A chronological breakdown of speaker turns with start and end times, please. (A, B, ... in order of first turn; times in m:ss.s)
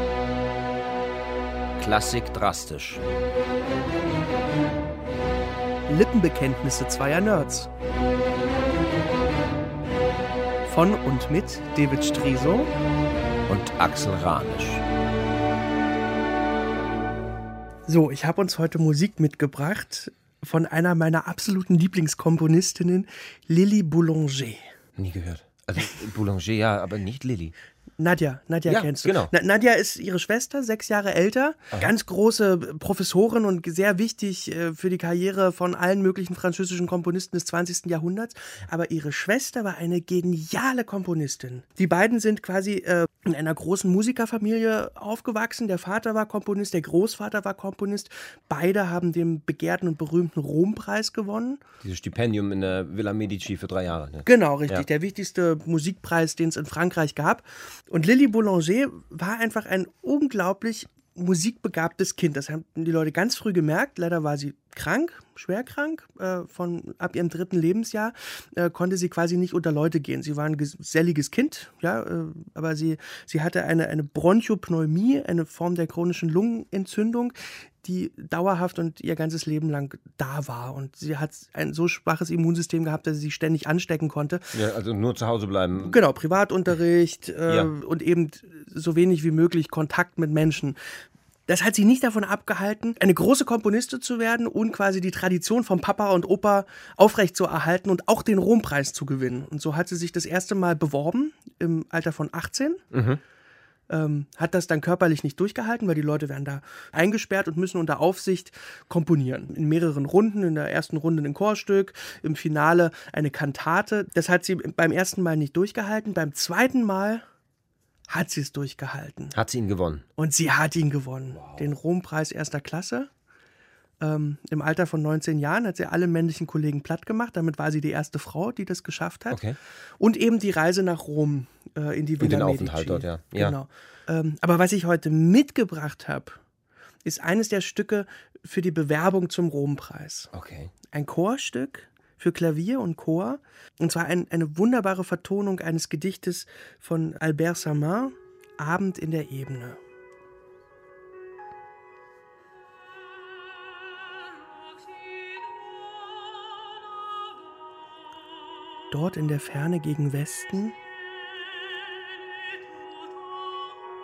0:01.8-0:03.0 A
0:05.9-0:07.7 B
0:10.6-0:12.7 B
0:13.5-0:14.8 A
0:17.9-0:24.7 B
0:25.0-0:27.5 A
0:28.0-0:51.6 B
0:28.6-0:29.3 A
0:51.8-0:54.9 A
0:54.2-1:24.6 B
1:24.5-1:26.0 A
1:25.8-1:30.8 B
1:31.5-1:42.8 B
1:42.9-1:43.2 A
1:43.9-1:57.2 B
1:58.1-1:59.4 B
1:59.3-2:00.0 A
2:00.2-2:03.1 B
2:01.3-2:01.7 A
2:04.0-2:09.4 B
2:09.3-2:09.6 A
2:10.0-2:16.4 B
2:12.2-2:13.6 A
2:17.0-2:20.3 B
2:20.3-2:20.7 A
2:20.9-2:29.8 B
2:38.9-2:40.8 B